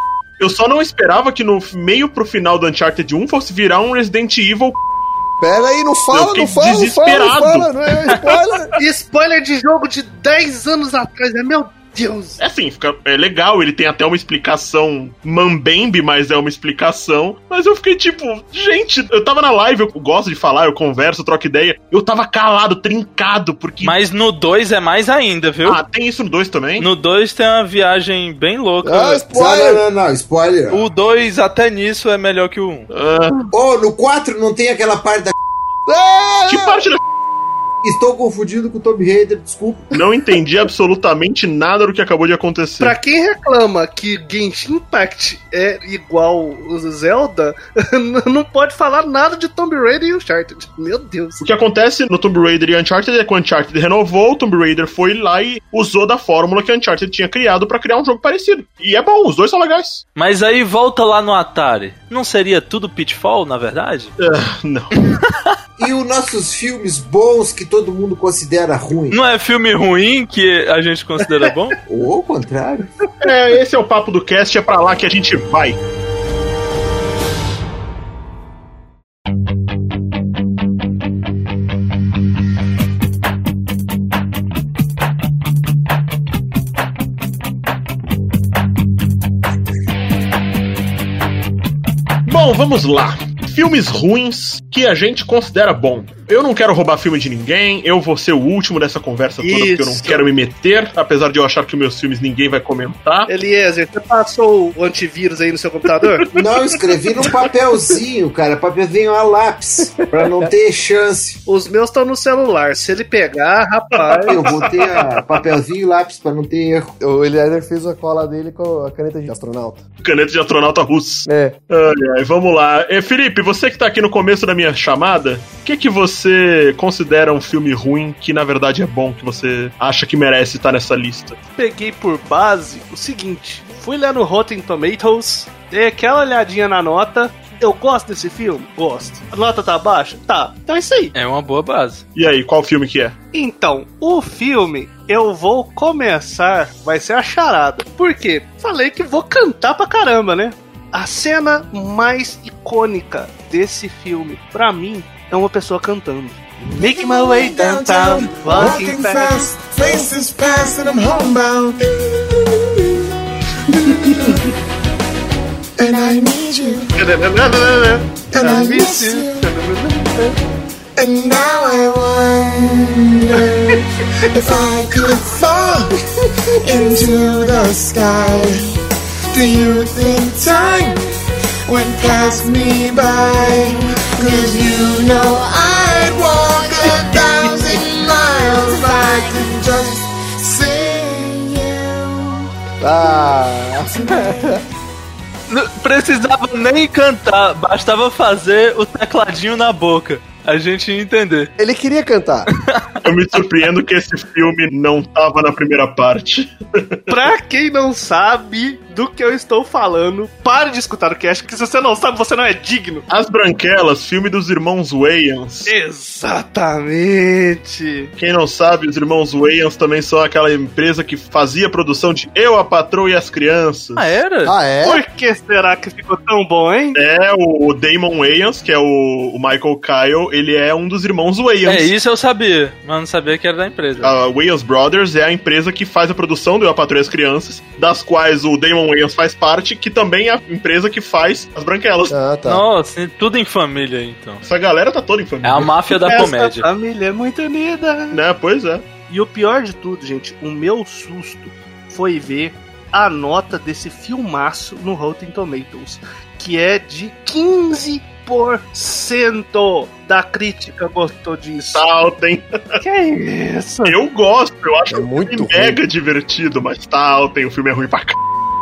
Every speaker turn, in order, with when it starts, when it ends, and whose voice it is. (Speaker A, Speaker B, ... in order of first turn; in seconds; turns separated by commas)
Speaker A: 0.4-4.8, Speaker B: 5.4-8.7, Speaker A: 6.1-8.4, Speaker C: 8.8-12.4, Speaker A: 12.4-24.0, Speaker D: 23.8-25.8, Speaker A: 25.6-26.9, Speaker D: 26.8-29.2, Speaker B: 28.8-29.8, Speaker E: 29.3-30.9, Speaker D: 30.7-32.9, Speaker A: 32.9-33.5, Speaker E: 33.5-35.3, Speaker B: 35.9-36.9, Speaker A: 36.5-37.0, Speaker E: 37.8-40.0, Speaker A: 39.9-43.0, Speaker C: 42.8-51.4, Speaker A: 51.4-60.0, Speaker D: 60.2-64.1, Speaker A: 64.2-64.9, Speaker D: 65.2-65.5, Speaker E: 65.8-69.2, Speaker D: 69.1-71.8, Speaker E: 71.9-72.9, Speaker A: 73.2-75.8, Speaker A: 92.3-103.3, Speaker C: 99.4-100.2, Speaker C: 103.3-106.5, Speaker E: 106.4-111.4, Speaker B: 110.0-110.5, Speaker C: 111.5-114.4, Speaker A: 114.0-115.2, Speaker E: 114.3-116.9, Speaker B: 117.0-119.8, Speaker A: 120.0-131.4, Speaker B: 121.3-121.6, Speaker C: 131.6-141.1, Speaker D: 141.1-142.0, Speaker A: 142.2-143.2, Speaker C: 143.3-159.5, Speaker F: 156.7-163.1, Speaker F: 163.7-164.5, Speaker F: 165.8-167.0, Speaker C: 167.0-170.3, Speaker F: 168.3-169.5, Speaker F: 171.0-175.9, Speaker F: 176.6-178.7, Speaker F: 179.3-181.0, Speaker F: 181.7-192.4, Speaker B: 188.8-189.1, Speaker B: 192.8-194.6, Speaker D: 195.5-201.5, Speaker B: 201.6-202.5, Speaker A: 203.0-207.0, Speaker C: 207.1-213.0, Speaker A: 213.1-215.7, Speaker C: 215.7-218.1, Speaker A: 218.2-224.2, Speaker D: 224.0-224.5, Speaker B: 224.4-225.0, Speaker C: 224.8-227.0, Speaker A: 227.0-231.9, Speaker D: 231.7-234.1, Speaker A: 234.0-242.2, Speaker B: 242.1-242.6, Speaker D: 242.4-244.4, Speaker A: 244.4-245.7, Speaker D: 245.4-246.7, Speaker C: 245.9-248.2, Speaker A: 248.1-248.8, Speaker C: 249.1-261.8, Speaker A: 261.7-262.8, Speaker C: 262.8-264.0, Speaker A: 263.8-268.2, Speaker B: 264.9-265.8